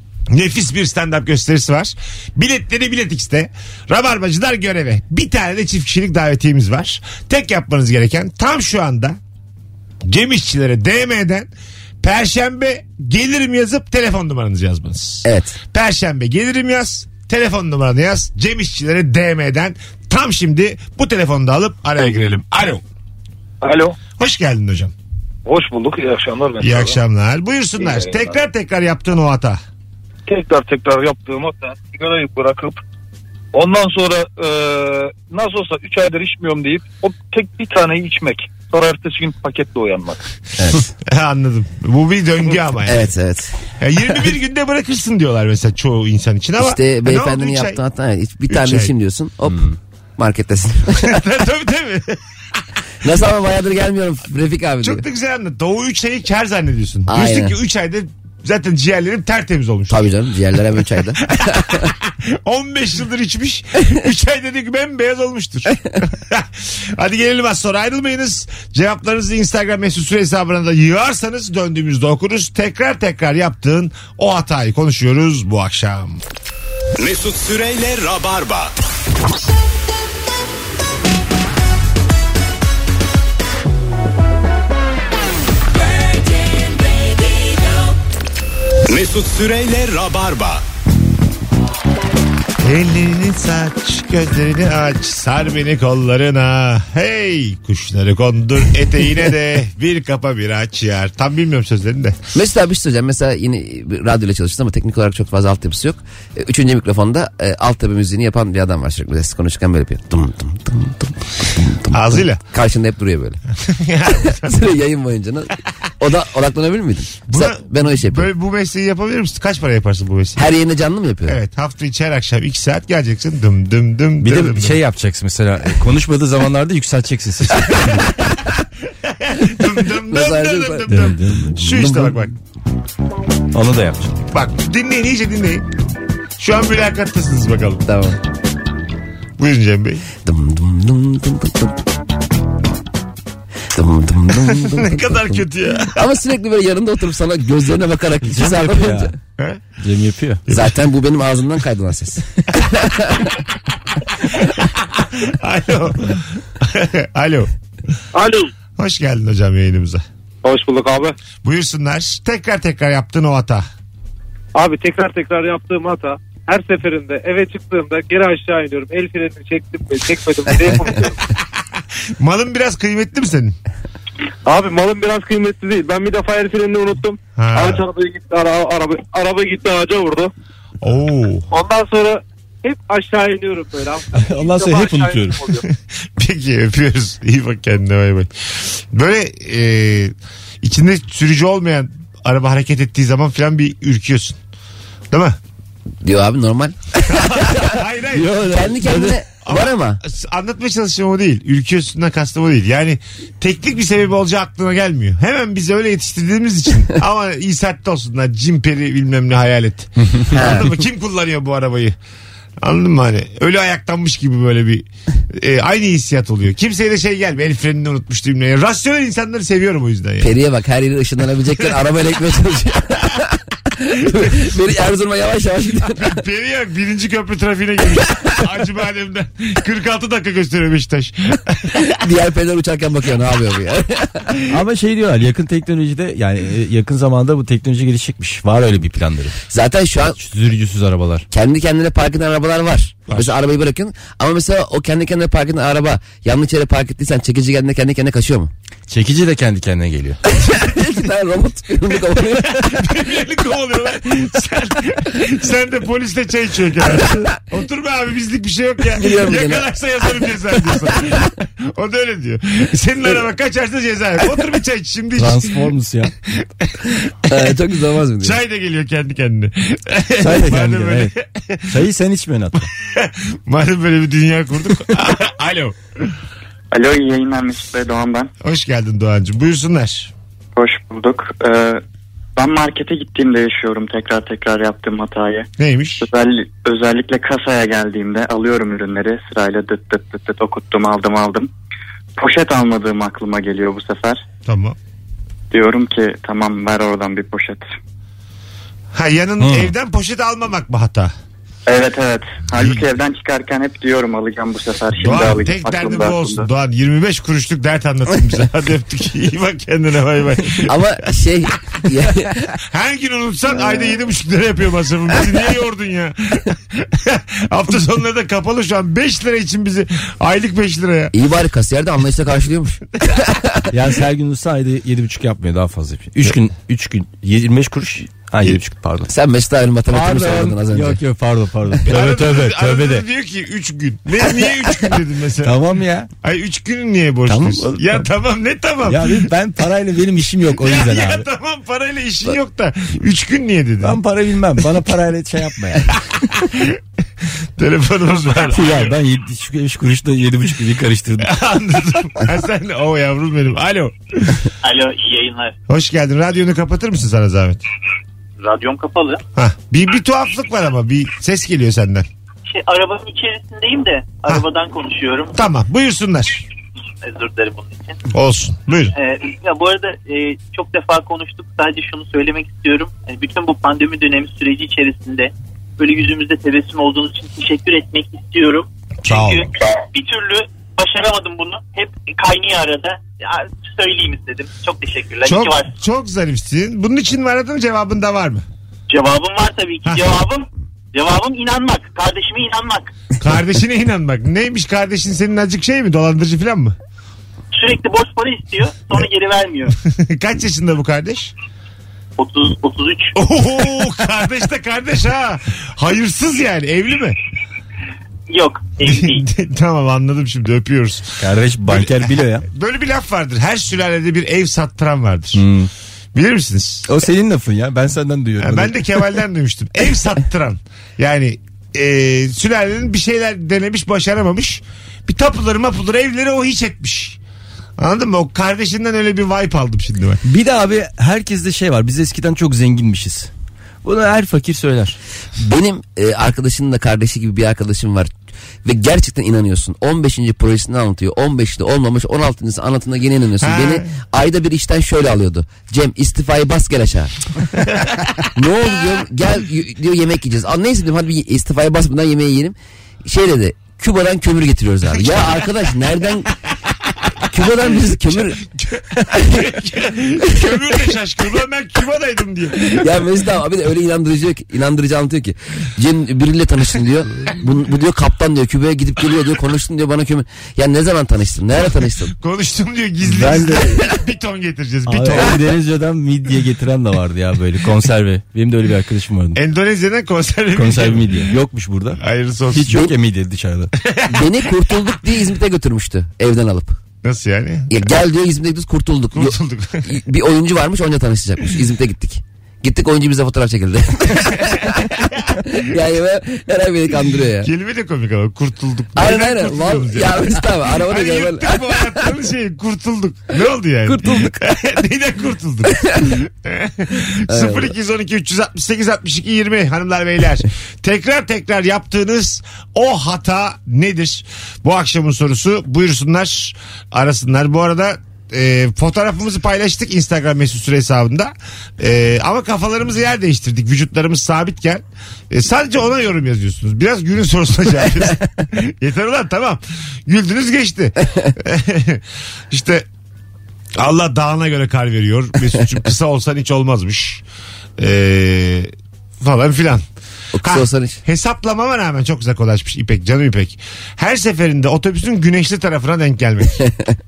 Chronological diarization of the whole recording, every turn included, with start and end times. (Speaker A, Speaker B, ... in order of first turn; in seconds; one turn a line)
Speaker A: 0.3-9.2
Speaker A: 10.0-11.5
Speaker A: 12.0-22.8
Speaker B: 15.2-15.6
Speaker C: 23.6-24.0
Speaker A: 24.2-24.9
Speaker C: 25.4-27.0
Speaker A: 26.6-29.6
Speaker C: 27.8-28.3
Speaker C: 30.2-32.8
Speaker C: 33.5-40.2
Speaker B: 40.6-40.8
Speaker A: 41.0-43.1
Speaker B: 42.8-43.6
Speaker A: 43.8-47.8
Speaker B: 46.6-51.2
Speaker A: 48.5-48.9
Speaker A: 51.0-52.2
Speaker B: 53.0-55.0
Speaker A: 54.8-60.0
Speaker B: 57.1-57.6
Speaker B: 59.9-61.9
Speaker A: 61.4-76.2
Speaker D: 77.0-78.7
Speaker D: 88.9-90.6
Speaker A: 92.6-102.2
Speaker B: 102.3-113.4
Speaker A: 111.9-112.4
Speaker A: 113.7-114.6
Speaker B: 114.1-118.3
Speaker A: 117.3-120.4
Speaker B: 120.3-121.4
Speaker A: 121.2-124.8
Speaker E: 124.2-128.0
Speaker A: 127.6-128.1
Speaker A: 129.0-132.3
Speaker B: 130.0-132.2
Speaker E: 130.9-131.9
Speaker E: 133.5-134.2
Speaker A: 134.3-135.7
Speaker A: 136.4-137.8
Speaker B: 137.8-138.2
Speaker A: 139.4-140.1
Speaker B: 140.2-141.8
Speaker B: 143.7-149.1
Speaker A: 144.4-146.0
Speaker E: 148.2-149.1
Speaker E: 149.8-150.4
Speaker A: 150.5-150.8
Speaker B: 150.5-153.2
Speaker A: 154.3-157.5
Speaker F: 158.1-158.5
Speaker A: 158.8-160.0
Speaker F: 160.4-161.1
Speaker A: 161.4-163.7
Speaker F: 164.5-171.2
Speaker A: 172.2-173.6
Speaker F: 174.4-180.3
Speaker A: 177.4-177.8
Speaker A: 180.8-181.4
Speaker F: 181.5-185.6
Speaker E: 184.1-185.5
Speaker A: 185.7-188.3
Speaker A: 188.9-194.4
Speaker A: 195.1-195.4
Speaker B: 196.0-200.0
Speaker A: 197.1-211.9
Speaker E: 198.3-199.2
Speaker B: 210.3-210.7
Speaker A: 212.6-220.3
Speaker B: 220.2-226.2
Speaker A: 225.9-231.9
Speaker B: 231.9-234.4
Speaker E: 234.5-239.4
Speaker B: 239.5-240.2
Speaker E: 240.1-241.2
Speaker B: 241.3-248.5
Speaker E: 248.9-250.2
Speaker B: 250.2-252.8
Speaker A: 252.2-265.7
Speaker B: 258.9-259.7
Speaker E: 265.1-266.1
Speaker A: 266.4-267.4
Speaker B: 267.3-268.4
Speaker A: 268.2-271.8
Speaker E: 270.2-271.1
Speaker E: 271.7-272.7
Speaker A: 272.9-275.8
Speaker G: 276.7-278.3
Speaker A: 278.4-280.1
Speaker G: 280.6-281.8
Speaker G: 282.4-285.5
Speaker A: 285.6-286.1
Speaker G: 286.0-291.5
Speaker G: 292.2-294.2
Speaker A: 294.4-294.8
Speaker G: 295.5-297.7
Speaker A: 298.9-301.1
Speaker E: 299.4-299.7
Speaker G: 301.7-306.5
Speaker A: 305.0-310.8
Speaker B: 310.6-312.5
Speaker A: 312.7-321.1
Speaker B: 313.6-313.9
Speaker B: 321.1-323.6
Speaker E: 323.7-329.1
Speaker B: 329.1-331.0
Speaker E: 329.9-333.1
Speaker A: 331.8-335.6
Speaker E: 335.4-336.1
Speaker A: 336.2-339.2
Speaker E: 337.3-338.0
Speaker E: 338.9-341.2
Speaker A: 340.5-344.0
Speaker E: 343.8-345.9
Speaker A: 345.9-346.8
Speaker A: 347.6-348.9
Speaker E: 348.5-351.3
Speaker A: 351.2-354.4
Speaker H: 354.6-355.5
Speaker A: 355.7-357.6
Speaker H: 358.4-359.2
Speaker A: 359.3-362.1
Speaker H: 362.4-365.4
Speaker A: 365.3-366.4
Speaker H: 367.0-368.0
Speaker A: 368.1-368.9
Speaker H: 368.9-385.7
Speaker A: 379.0-379.5
Speaker A: 385.2-388.4
Speaker H: 388.9-392.9
Speaker A: 389.9-390.1
Speaker A: 393.2-396.8
Speaker H: 397.5-399.7
Speaker A: 399.9-401.3
Speaker H: 402.2-403.1
Speaker A: 403.1-407.2
Speaker H: 408.3-409.2
Speaker A: 408.8-415.4
Speaker E: 411.2-412.4
Speaker E: 415.3-415.7
Speaker A: 416.1-416.9
Speaker E: 416.9-419.1
Speaker A: 418.4-427.2
Speaker A: 427.8-430.2
Speaker E: 430.2-433.3
Speaker E: 433.8-435.0
Speaker B: 435.4-438.1
Speaker B: 438.6-447.1
Speaker A: 443.4-443.8
Speaker B: 448.3-456.3
Speaker A: 455.0-455.4
Speaker B: 457.3-458.4
Speaker A: 457.7-463.0
Speaker B: 459.0-459.5
Speaker B: 460.4-460.7
Speaker B: 462.6-472.1
Speaker A: 472.2-475.4
Speaker E: 473.0-473.9
Speaker E: 474.9-479.4
Speaker A: 479.4-481.3
Speaker E: 480.5-482.0
Speaker A: 482.0-482.9
Speaker E: 482.5-483.7
Speaker A: 483.8-484.3
Speaker B: 484.1-486.8
Speaker A: 487.0-487.7
Speaker B: 487.7-494.9
Speaker A: 489.1-489.9
Speaker A: 494.4-495.5
Speaker B: 495.4-497.5
Speaker A: 497.4-532.9
Speaker B: 498.9-502.1
Speaker B: 503.9-504.4
Speaker B: 507.3-507.7
Speaker A: 533.8-537.2
Speaker A: 537.8-539.8
Speaker B: 540.3-541.0
Speaker A: 540.4-546.7